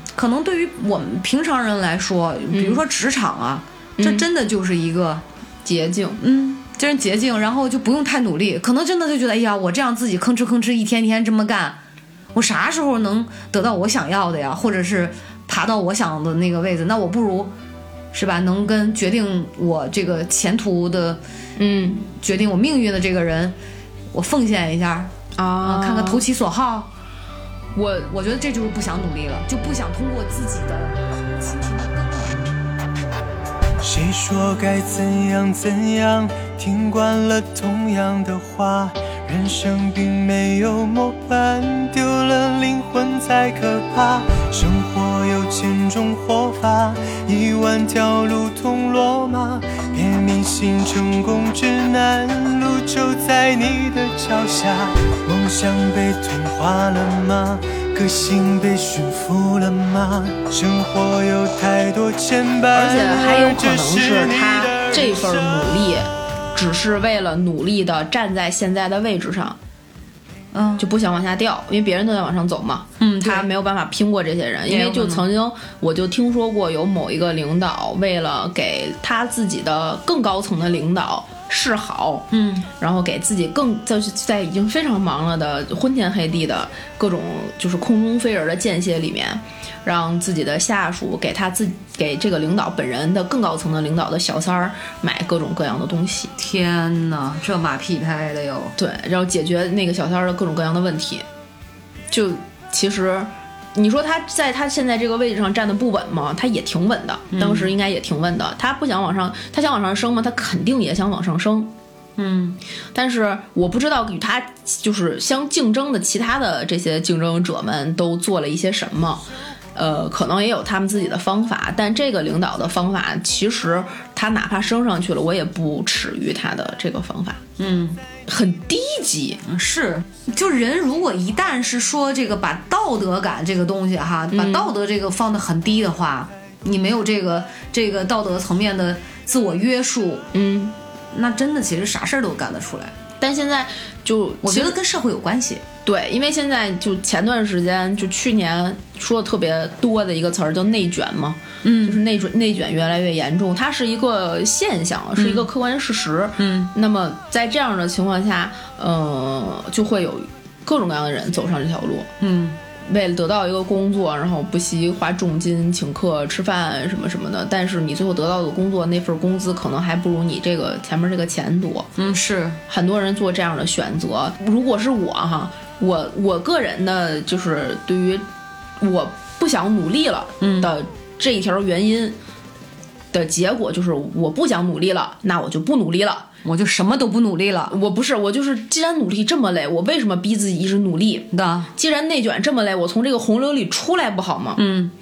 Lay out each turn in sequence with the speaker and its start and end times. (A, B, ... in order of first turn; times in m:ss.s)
0:00.1-0:05.2 A
0:02.5-0:02.8 B
0:04.0-0:04.2 B
0:05.6-0:06.2 B
0:06.2-0:11.8 A
0:12.3-0:17.5 A
0:18.1-0:21.2 A
0:21.6-0:22.0 B
0:22.1-0:23.6 A
0:24.1-0:25.1 A
0:25.4-0:26.2 B
0:25.6-0:26.9 A
0:27.7-0:28.1 B
0:28.1-0:32.3 A
0:33.8-1:05.8 C
1:02.7-1:09.6 B
1:10.5-1:10.9 A
1:10.8-1:22.3 B
1:13.0-1:13.5 A
1:14.7-1:15.2 A
1:22.3-1:22.7 A
1:22.8-1:36.3 B
1:36.4-1:38.7 A
1:38.8-1:41.2 B
1:42.1-1:51.7 B
1:47.3-1:47.7 A
1:52.2-1:52.6 A
1:52.9-1:59.2 B
1:59.7-2:07.4 B
2:07.6-2:08.0 A
2:08.3-2:09.4 B
2:09.4-2:20.2 A
2:14.3-2:14.7 B
2:20.3-2:20.7 B
2:21.1-2:22.9 A
2:23.2-2:24.8 B
2:24.4-2:25.6 A
2:25.8-2:42.1 B
2:31.6-2:32.0 A
2:35.2-2:35.5 A
2:36.4-2:36.7 A
2:42.2-2:42.6 A
2:42.9-2:51.9 B
2:52.0-2:52.6 A
2:52.7-2:58.2 B
2:58.8-3:02.2 B
3:00.4-3:00.7 A
3:03.1-3:06.3 B
3:06.4-3:07.7 A
3:07.7-3:14.6 B
3:11.3-3:11.7 A
3:14.6-3:14.9 A